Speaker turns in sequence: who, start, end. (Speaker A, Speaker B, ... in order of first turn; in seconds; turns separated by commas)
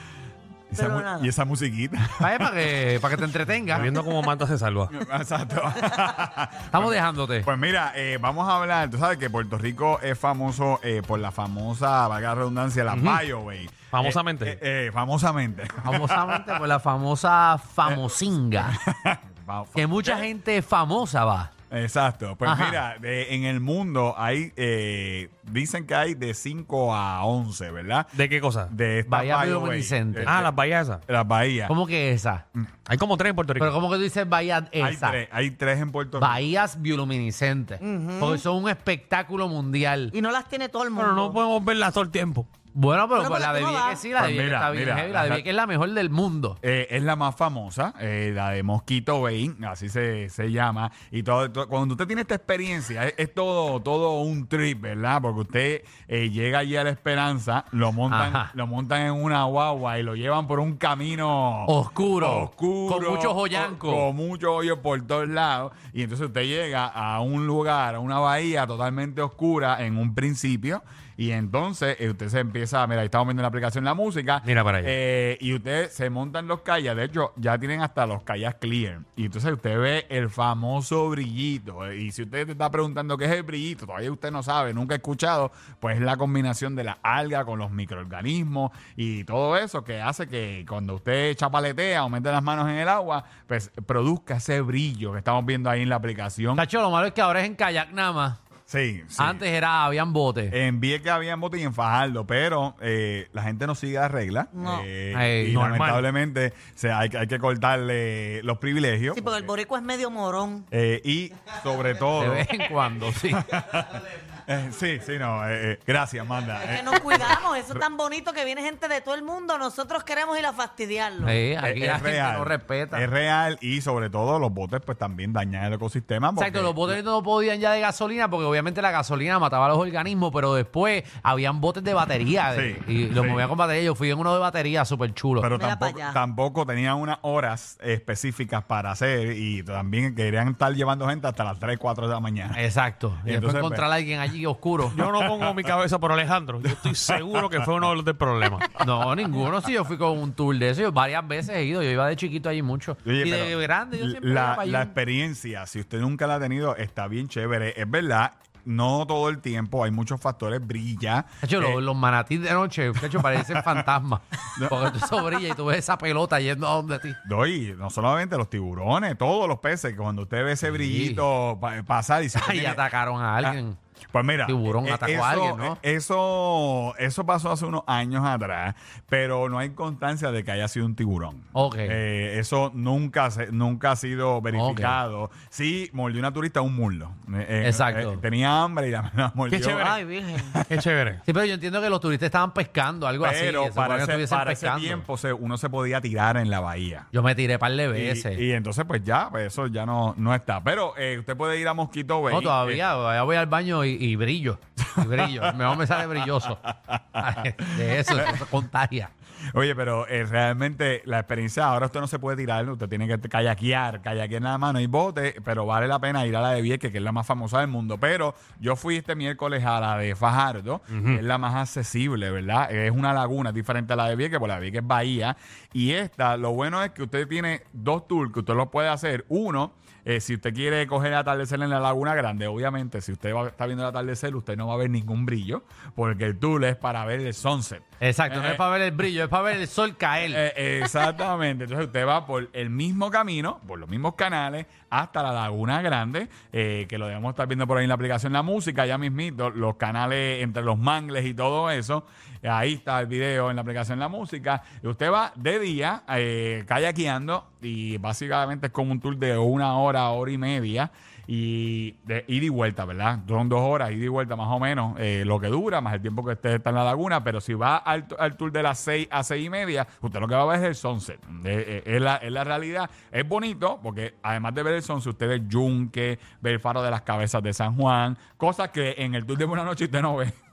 Speaker A: 0.7-2.6, Speaker B: 0.8-1.3, Speaker C: 2.2-4.0, Speaker D: 3.7-4.9, Speaker A: 4.9-16.7, Speaker C: 6.7-7.5, Speaker D: 12.9-13.2, Speaker D: 13.9-14.6, Speaker C: 15.8-18.8, Speaker A: 17.8-20.3, Speaker C: 19.8-21.5, Speaker A: 21.7-28.1, Speaker C: 22.4-22.8, Speaker D: 28.1-28.7, Speaker A: 28.7-30.5, Speaker C: 29.1-30.4, Speaker D: 30.3-31.0, Speaker A: 31.1-31.7, Speaker C: 31.7-32.5, Speaker D: 32.9-33.8, Speaker C: 33.6-35.2, Speaker A: 34.8-36.5, Speaker C: 36.2-40.1, Speaker B: 37.8-38.4, Speaker B: 40.1-41.4, Speaker D: 41.0-42.5, Speaker C: 42.7-46.6, Speaker B: 43.1-44.1, Speaker A: 44.2-45.5, Speaker A: 46.6-96.7, Speaker C: 58.1-58.5, Speaker C: 61.7-64.1, Speaker D: 74.5-74.9, Speaker C: 96.5-98.4, Speaker A: 98.7-99.5, Speaker C: 99.2-100.6, Speaker A: 100.5-109.5, Speaker B: 104.5-104.9, Speaker C: 105.1-105.6, Speaker D: 105.5-106.1, Speaker B: 109.1-110.7, Speaker A: 110.7-112.5, Speaker C: 112.2-113.5, Speaker A: 113.4-117.8, Speaker B: 116.6-121.4, Speaker C: 121.2-123.1, Speaker A: 121.6-127.0, Speaker C: 126.4-135.5, Speaker A: 132.5-133.5, Speaker A: 135.4-142.6, Speaker B: 135.5-136.2, Speaker C: 142.5-144.9, Speaker A: 143.2-143.9, Speaker A: 144.9-145.6, Speaker D: 144.9-148.7, Speaker A: 146.8-147.6, Speaker C: 148.8-154.9, Speaker A: 153.0-161.8, Speaker C: 161.4-167.2, Speaker A: 163.0-163.9, Speaker A: 164.5-165.1, Speaker A: 167.2-172.8, Speaker C: 170.6-171.3, Speaker C: 172.3-173.8, Speaker A: 174.1-189.9, Speaker C: 174.4-175.8, Speaker C: 181.5-182.0, Speaker C: 184.5-185.0, Speaker C: 187.6-188.2, Speaker D: 189.5-190.0, Speaker B: 189.9-190.6, Speaker D: 190.7-191.2, Speaker C: 191.3-195.1, Speaker A: 193.2-197.1, Speaker C: 197.1-198.4, Speaker A: 197.9-202.8, Speaker C: 202.3-209.1, Speaker A: 205.0-206.1, Speaker A: 206.9-208.4, Speaker A: 209.5-238.7, Speaker D: 220.9-221.2, Speaker C: 238.0-240.4, Speaker A: 240.3-280.4